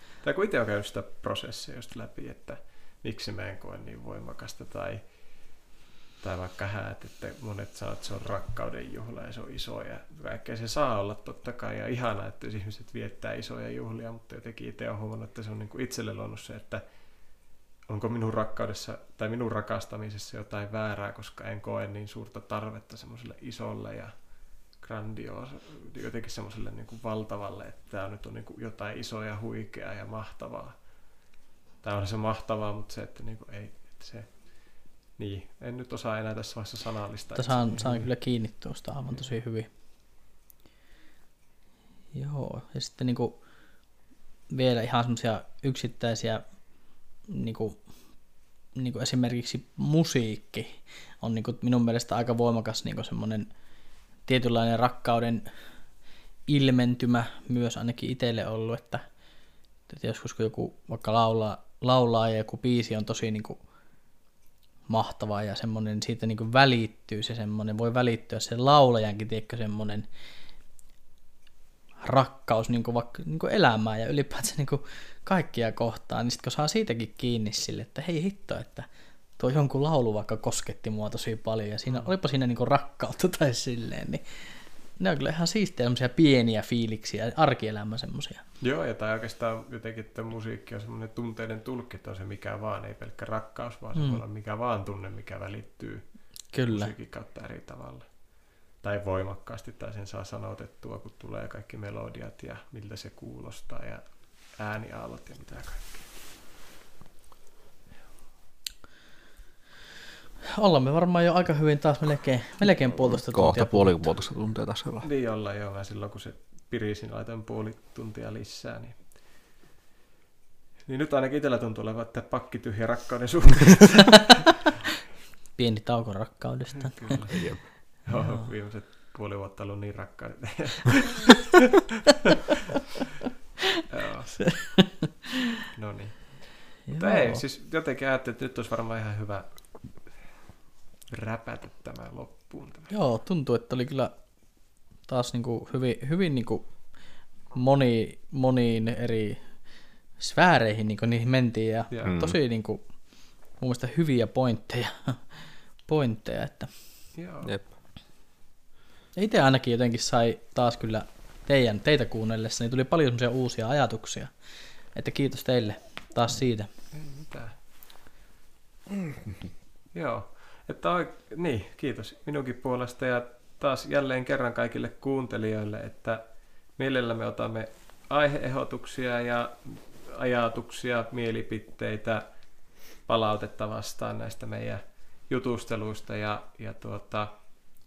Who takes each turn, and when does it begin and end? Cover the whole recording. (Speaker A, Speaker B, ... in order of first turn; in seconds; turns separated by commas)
Speaker A: 0.2-5.0, Speaker A: 6.2-16.8, Speaker A: 17.9-24.1, Speaker A: 24.8-30.8, Speaker A: 31.8-38.1, Speaker B: 37.4-39.7, Speaker B: 42.1-43.4, Speaker B: 44.5-46.4, Speaker B: 47.3-47.8, Speaker B: 48.7-53.5, Speaker B: 54.2-55.5, Speaker B: 56.5-59.0, Speaker B: 59.9-63.6, Speaker B: 64.9-70.0, Speaker B: 72.0-78.9, Speaker B: 79.4-84.4, Speaker B: 85.0-88.4, Speaker A: 88.6-96.1, Speaker B: 94.0-94.2, Speaker B: 96.5-96.9, Speaker A: 96.7-98.1, Speaker A: 98.8-106.0, Speaker B: 110.5-114.1, Speaker C: 113.0-115.1, Speaker A: 115.0-119.0, Speaker A: 120.9-124.4, Speaker B: 125.5-127.2, Speaker A: 126.8-127.4, Speaker C: 127.3-127.6, Speaker A: 128.0-131.6, Speaker B: 128.1-128.4, Speaker A: 132.1-132.3, Speaker A: 133.9-134.7, Speaker A: 135.7-139.5, Speaker B: 136.9-137.4, Speaker A: 141.1-142.9, Speaker B: 142.9-144.1, Speaker B: 145.1-146.7, Speaker B: 147.5-149.4, Speaker B: 150.2-152.8, Speaker A: 151.9-152.2, Speaker C: 152.1-152.3, Speaker B: 153.6-155.2, Speaker B: 155.8-156.7, Speaker A: 157.2-157.5, Speaker B: 159.1-164.3, Speaker B: 164.9-166.7, Speaker A: 166.9-167.5, Speaker A: 169.9-176.2, Speaker A: 176.8-182.2, Speaker A: 183.1-187.3